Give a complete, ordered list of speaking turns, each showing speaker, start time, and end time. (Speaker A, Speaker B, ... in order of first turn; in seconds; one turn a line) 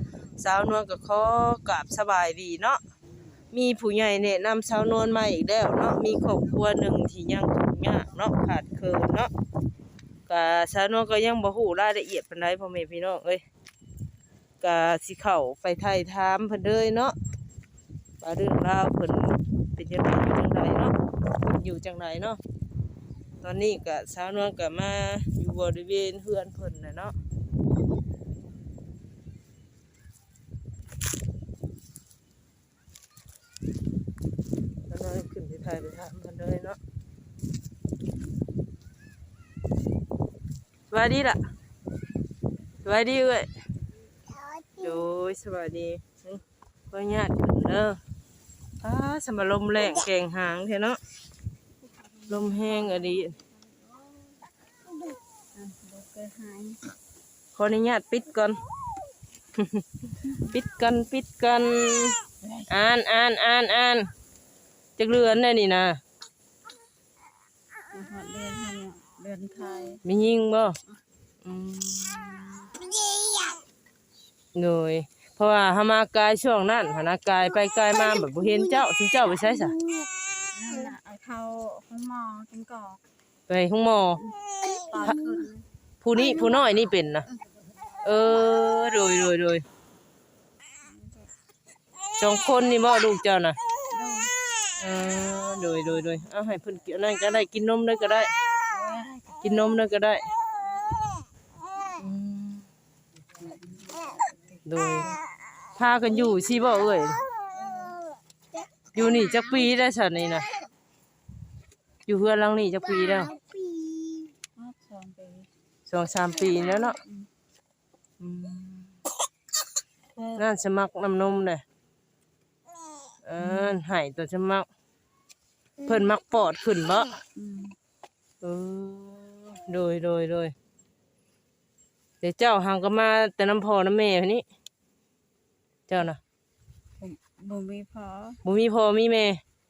Speaker A: 0.4-2.8
Speaker A: 3.5-9.3
Speaker A: 10.3-13.4
Speaker A: 14.6-17.2
Speaker A: 18.2-22.4
Speaker A: 23.4-27.1
Speaker A: 34.9-36.8
Speaker A: 40.9-41.4
Speaker A: 42.8-43.5
Speaker A: 44.8-48.0
Speaker A: 48.8-51.0
Speaker B: 52.2-53.4
Speaker A: 52.3-53.4
Speaker B: 55.5-56.9
Speaker A: 57.6-58.6
Speaker A: 59.6-64.1
Speaker B: 62.4-62.7
Speaker A: 65.0-66.0
Speaker B: 67.9-70.0
Speaker A: 70.0-70.8
Speaker A: 71.4-72.9
Speaker A: 74.5-79.8
Speaker B: 80.5-83.0
Speaker A: 83.5-84.2
Speaker B: 84.8-85.7
Speaker A: 85.0-85.3
Speaker A: 86.0-87.3
Speaker A: 88.0-89.6
Speaker B: 90.8-91.3
Speaker A: 92.2-93.6
Speaker B: 93.9-94.3
Speaker A: 94.8-98.3
Speaker B: 98.7-99.6
Speaker A: 99.4-100.3
Speaker A: 102.0-102.6
Speaker B: 103.4-104.6
Speaker A: 104.7-105.1
Speaker A: 105.8-107.3
Speaker B: 107.5-108.0
Speaker A: 108.9-110.5
Speaker A: 112.1-113.4
Speaker B: 114.6-115.5
Speaker A: 115.9-117.0
Speaker B: 116.8-117.3
Speaker A: 118.2-119.0
Speaker B: 120.2-120.4
Speaker A: 120.4-121.6
Speaker A: 123.2-124.7
Speaker B: 123.4-123.8
Speaker A: 125.8-127.2
Speaker B: 127.3-127.8
Speaker A: 128.4-130.5
Speaker A: 132.2-134.4
Speaker A: 135.9-136.2
Speaker B: 137.0-138.4
Speaker A: 138.4-139.4